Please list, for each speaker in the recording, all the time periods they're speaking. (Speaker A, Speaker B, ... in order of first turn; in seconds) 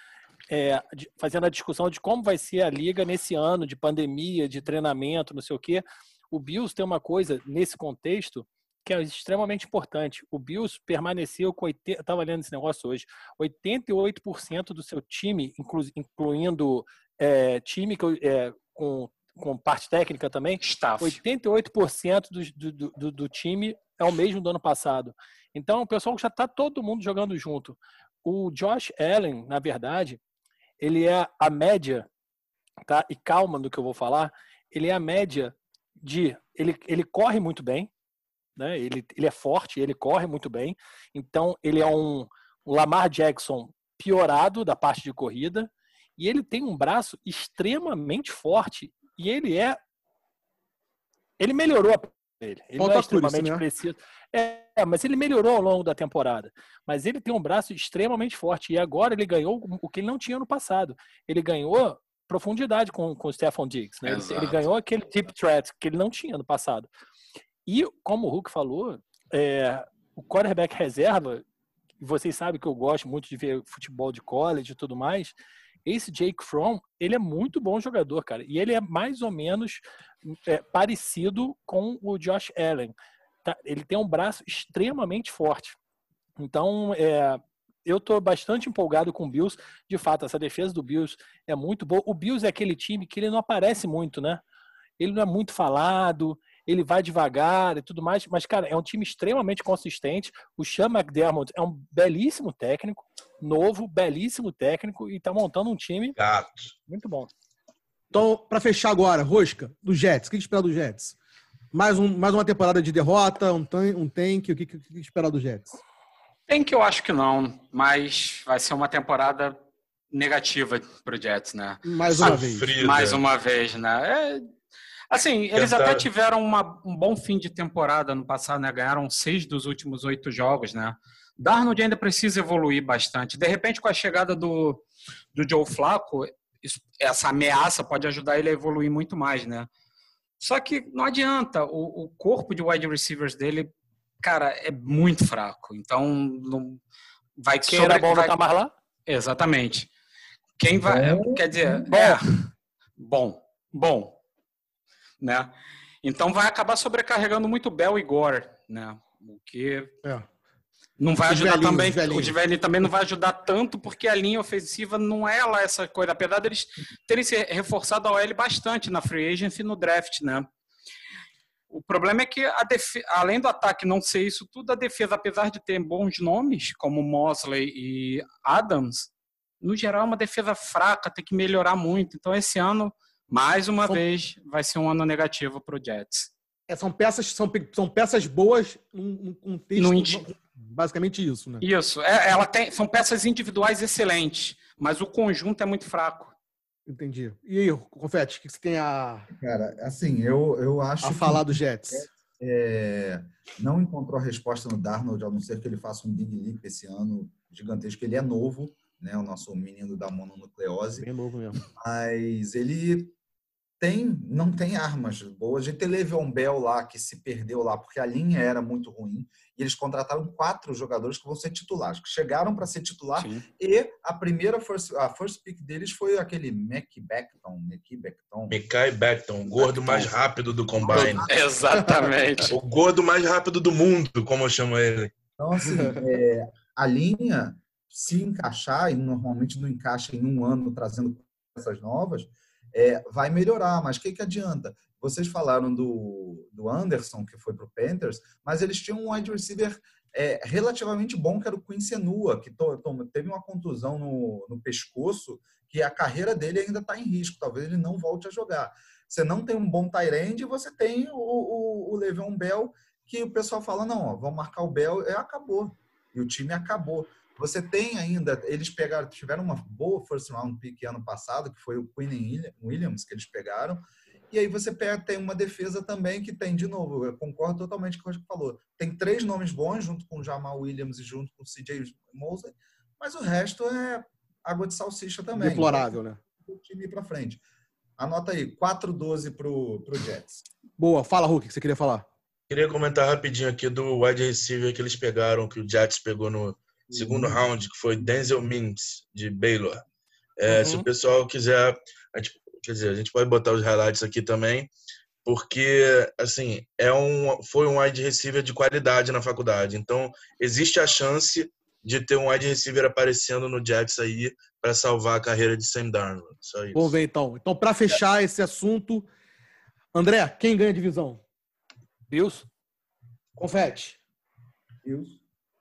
Speaker A: 0.5-30.2, 30.8-32.1, 32.8-37.9, 38.6-49.8, 51.4-66.9, 67.7-71.4, 72.0-75.3, 75.8-82.9, 83.4-85.8, 86.4-94.4, 95.0-106.2, 106.9-107.3, 147.7-148.7, 151.9-152.2, 300.6-300.8, 322.1-322.4
Speaker B: 20.6-21.2, 64.1-64.5, 116.5-119.6, 120.1-124.5, 125.1-139.7, 140.4-146.8, 147.4-148.4, 149.1-149.9, 150.6-154.2, 155.2-155.5, 156.0-159.9, 161.0-170.5, 171.7-186.3, 189.8-190.2, 191.6-196.3, 223.2-223.4, 229.6-230.1, 230.9-232.6
Speaker C: 52.8-53.6, 108.1-111.2, 111.7-115.8, 121.8-122.7, 161.3-162.3, 186.7-191.6, 196.9-199.3, 201.0-202.1, 211.0-211.6, 230.9-231.2, 231.7-232.5, 235.6-236.0, 285.4-286.2, 290.8-292.1, 296.9-297.4, 316.7-319.1, 319.9-321.2, 323.4-324.0
Speaker D: 106.2-106.7, 122.1-123.2, 125.5-126.1, 228.5-231.3, 232.5-235.1, 292.5-299.8, 300.4-304.7, 305.2-317.0
Speaker E: 150.7-151.9, 199.3-211.1, 211.6-213.1, 213.8-228.6, 230.9-231.3, 235.4-287.4, 288.0-290.4, 324.8-325.2